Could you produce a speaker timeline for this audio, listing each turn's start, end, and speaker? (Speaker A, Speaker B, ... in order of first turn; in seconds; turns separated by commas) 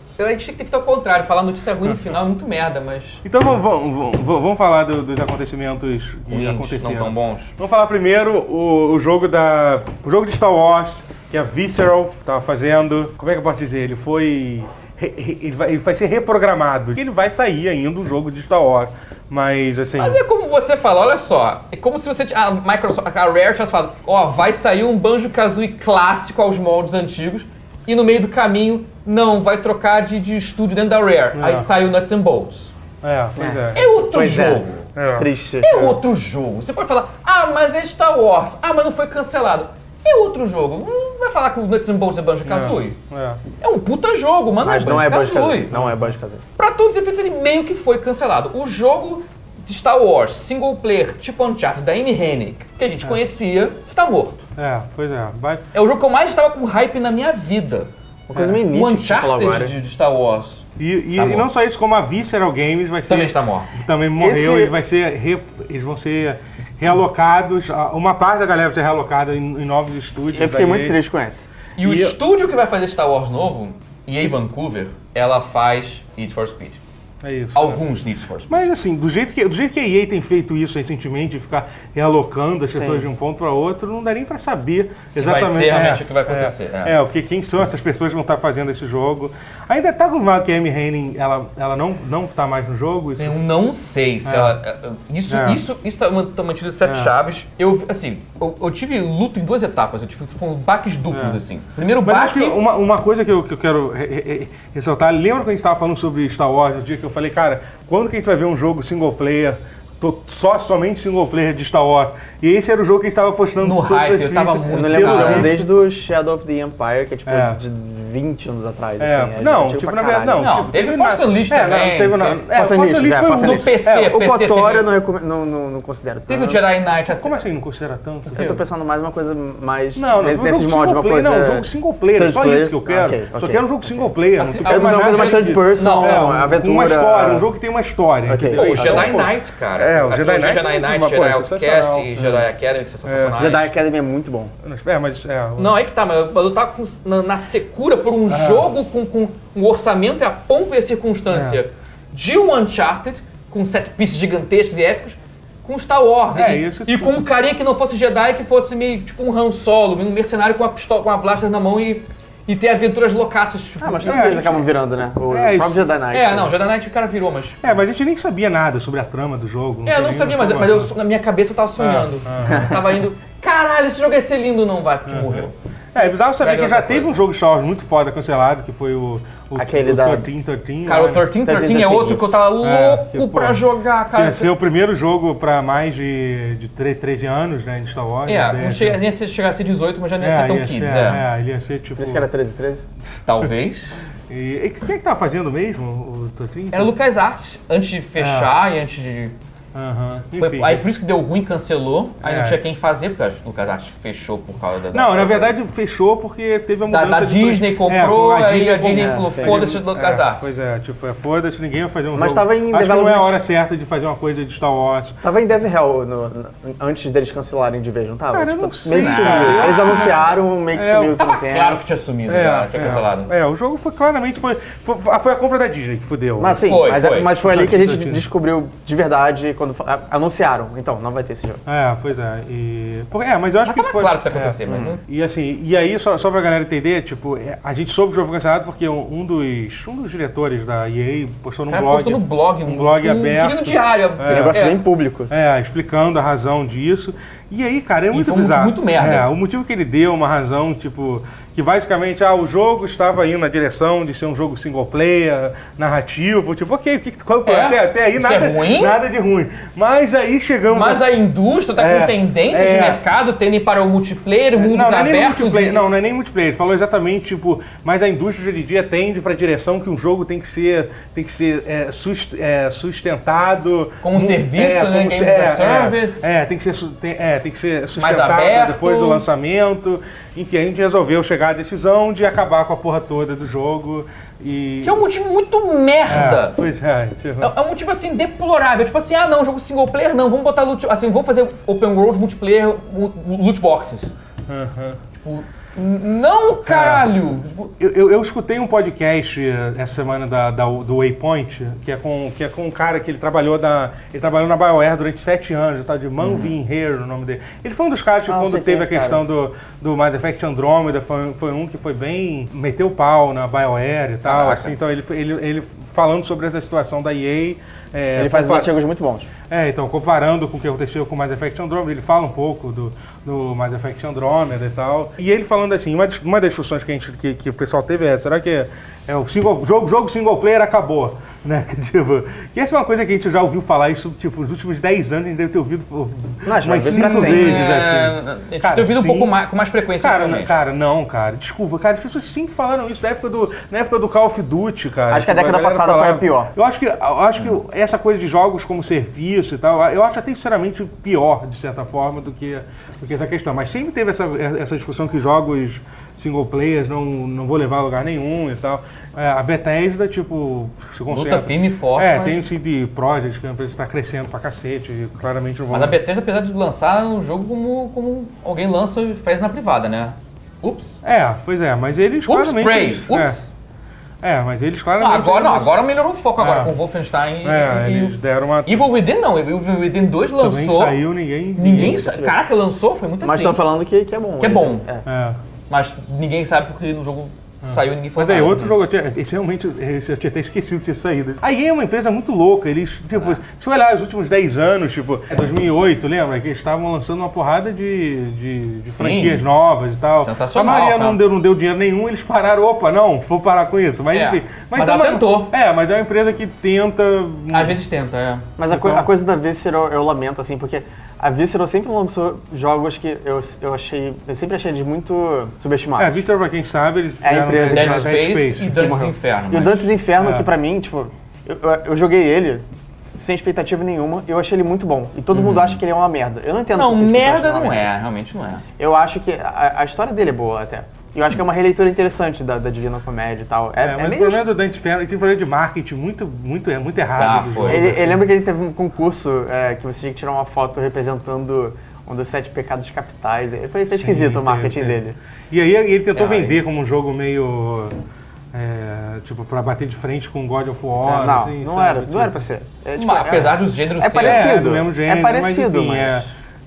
Speaker A: 0.2-3.2, Speaker B: 3.2-20.2, Speaker A: 6.3-7.5, Speaker A: 20.0-32.7, Speaker B: 31.4-31.7, Speaker B: 33.0-33.9, Speaker C: 33.4-34.6, Speaker A: 33.8-34.9, Speaker B: 35.0-35.3, Speaker C: 35.1-35.9, Speaker A: 35.6-43.0, Speaker B: 42.5-43.4, Speaker A: 43.6-45.8, Speaker C: 44.6-46.4, Speaker B: 45.7-46.1, Speaker A: 46.6-54.4, Speaker B: 54.6-55.6, Speaker A: 55.7-60.6, Speaker C: 58.3-59.7, Speaker B: 60.8-71.0, Speaker A: 61.1-61.5, Speaker A: 63.1-63.7, Speaker C: 64.2-64.8, Speaker C: 70.3-71.5, Speaker A: 71.8-76.8, Speaker B: 71.8-72.2, Speaker B: 77.2-77.8, Speaker A: 77.5-78.6, Speaker B: 78.5-93.4, Speaker C: 82.7-83.1, Speaker A: 85.1-87.0, Speaker A: 93.2-102.6, Speaker B: 94.2-94.6, Speaker B: 95.3-95.6, Speaker B: 96.8-97.1, Speaker B: 101.1-101.4, Speaker B: 102.0-115.6, Speaker A: 113.6-115.6, Speaker C: 114.7-120.5, Speaker B: 117.3-117.6, Speaker B: 119.0-124.2, Speaker A: 120.4-122.4, Speaker C: 122.5-126.6, Speaker A: 123.3-124.9, Speaker A: 126.3-127.4, Speaker B: 127.1-128.5, Speaker C: 128.3-137.5, Speaker A: 128.3-128.6, Speaker B: 130.0-142.2, Speaker A: 134.4-136.3, Speaker C: 138.3-139.3, Speaker A: 138.5-143.7, Speaker B: 143.1-143.5, Speaker C: 143.4-144.5, Speaker B: 144.6-145.8, Speaker A: 145.6-164.6, Speaker B: 148.3-148.7, Speaker B: 151.3-151.6, Speaker B: 156.3-157.2, Speaker C: 163.8-166.5, Speaker B: 164.0-164.6, Speaker B: 165.3-165.9, Speaker A: 166.1-167.6, Speaker B: 167.6-170.9, Speaker A: 169.9-175.5, Speaker B: 171.8-172.8, Speaker C: 172.5-172.8, Speaker B: 175.1-181.3, Speaker A: 176.4-177.2, Speaker C: 179.6-180.3, Speaker A: 180.8-184.5, Speaker C: 181.4-182.4, Speaker B: 182.6-189.0, Speaker A: 188.3-191.2, Speaker B: 190.2-192.3, Speaker C: 192.0-192.9, Speaker B: 193.1-193.5, Speaker A: 193.3-193.9, Speaker B: 194.3-196.9, Speaker A: 196.7-199.4, Speaker B: 198.2-198.5, Speaker B: 199.7-200.8, Speaker A: 200.4-205.5, Speaker B: 202.2-202.6, Speaker B: 204.9-215.2, Speaker A: 206.9-210.4, Speaker C: 208.9-209.7, Speaker C: 212.1-213.4, Speaker C: 215.2-221.8, Speaker B: 218.3-221.2, Speaker A: 218.9-220.3, Speaker A: 221.2-223.3, Speaker B: 222.3-226.6, Speaker C: 226.4-231.6, Speaker A: 226.6-227.4, Speaker B: 227.2-228.3, Speaker B: 231.7-244.6, Speaker A: 233.6-235.0, Speaker C: 234.7-235.0, Speaker A: 241.7-244.8, Speaker C: 244.3-245.3, Speaker B: 245.3-261.1, Speaker A: 248.1-249.3, Speaker A: 257.5-259.0, Speaker A: 260.7-265.9, Speaker B: 261.8-263.0, Speaker B: 264.6-285.0, Speaker A: 274.0-276.3, Speaker A: 278.0-279.2, Speaker A: 284.8-286.6, Speaker B: 286.1-287.5, Speaker A: 287.4-294.1, Speaker B: 294.5-295.0, Speaker A: 295.2-297.7, Speaker B: 296.7-297.1, Speaker B: 297.8-318.7, Speaker A: 306.2-306.5, Speaker C: 308.3-309.2, Speaker A: 314.2-314.8, Speaker C: 318.1-319.3, Speaker B: 319.5-339.3, Speaker C: 336.4-337.7, Speaker A: 336.9-340.5, Speaker B: 340.0-366.0, Speaker C: 345.1-346.5, Speaker A: 361.1-362.4, Speaker A: 365.7-371.0, Speaker B: 371.0-373.4, Speaker A: 372.3-373.5, Speaker B: 374.2-375.8, Speaker A: 375.0-378.1, Speaker B: 376.4-376.8, Speaker B: 377.4-378.9, Speaker A: 378.7-381.0, Speaker B: 380.4-382.0, Speaker A: 381.6-383.6, Speaker C: 381.6-382.4, Speaker C: 383.2-385.0, Speaker A: 384.4-384.9, Speaker B: 385.1-385.4, Speaker A: 385.7-388.7, Speaker B: 387.6-407.8, Speaker A: 398.9-399.4, Speaker A: 400.2-401.2, Speaker A: 404.1-405.5, Speaker A: 407.5-408.5, Speaker C: 408.6-416.2, Speaker B: 408.7-409.1, Speaker B: 416.0-419.0, Speaker C: 417.2-427.9, Speaker A: 417.7-419.9, Speaker B: 420.2-420.5, Speaker A: 425.3-425.8, Speaker A: 426.7-428.6, Speaker C: 428.8-434.4, Speaker B: 433.8-438.2, Speaker A: 437.1-438.1, Speaker C: 437.6-445.2, Speaker B: 443.9-448.0, Speaker A: 446.1-446.6, Speaker B: 448.5-452.4, Speaker C: 451.0-456.3, Speaker A: 453.0-454.5, Speaker B: 454.2-456.3